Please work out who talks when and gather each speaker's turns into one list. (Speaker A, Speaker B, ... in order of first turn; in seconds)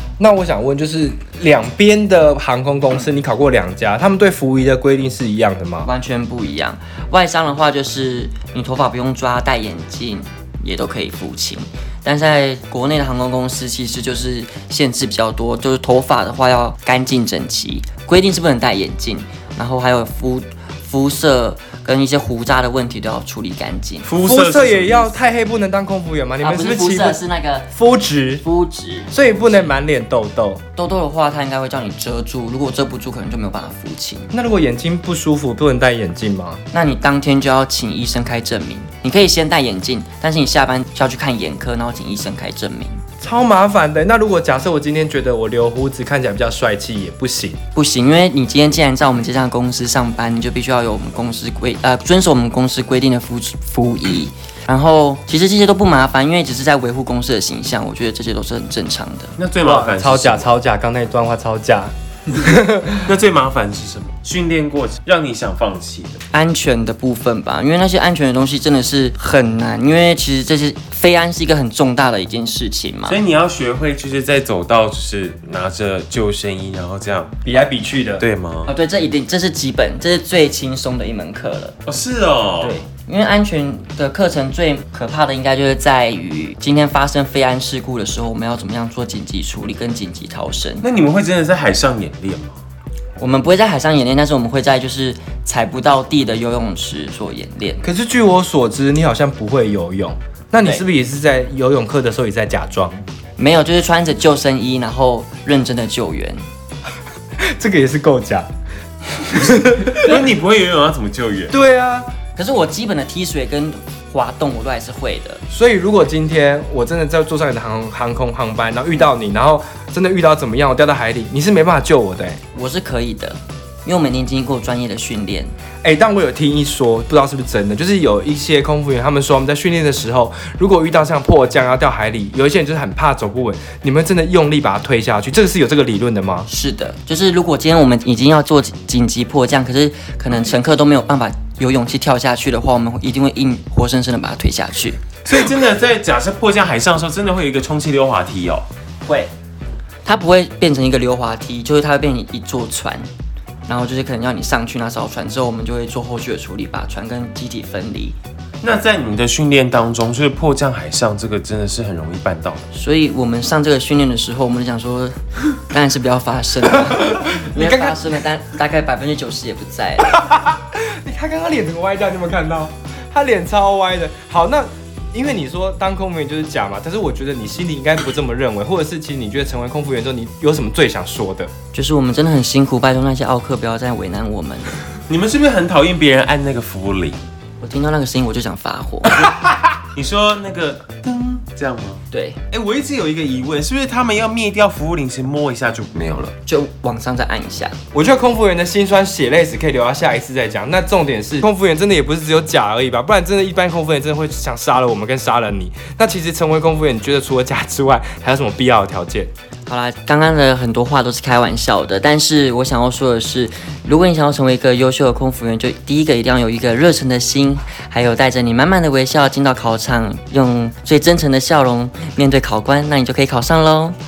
Speaker A: 0.2-5.9, 24.2-27.2, 27.7-28.4, 29.1-30.6, 34.3-36.6, 43.2-47.6, 59.6-63.0, 77.5-78.2, 97.8-103.0, 107.5-108.5, 109.3-110.2, 111.5-112.1, 115.5-122.4, 125.8-136.5, 167.0-168.1, 170.2-181.5, 197.9-209.3
Speaker B: 5.8-24.1, 26.4-27.7, 28.4-29.8, 30.8-34.3, 36.7-43.0, 47.8-59.3, 66.3-73.2, 78.7-81.8, 82.6-90.8, 93.2-97.8, 103.4-106.4, 112.3-115.4, 122.5-125.5, 136.5-145.0, 150.1-153.1, 153.7-158.2, 162.7-170.2, 181.7-184.8, 187.6-189.3, 192.1-192.4, 196.5-197.8, 209.7-224.0
Speaker C: 24.1-25.1, 59.4-60.5, 63.0-66.2, 73.1-77.3, 78.2-78.7, 81.9-82.8, 90.8-92.6, 109.6-111.5, 145.2-148.7, 158.6-162.6, 185.1-187.2, 189.9-196.3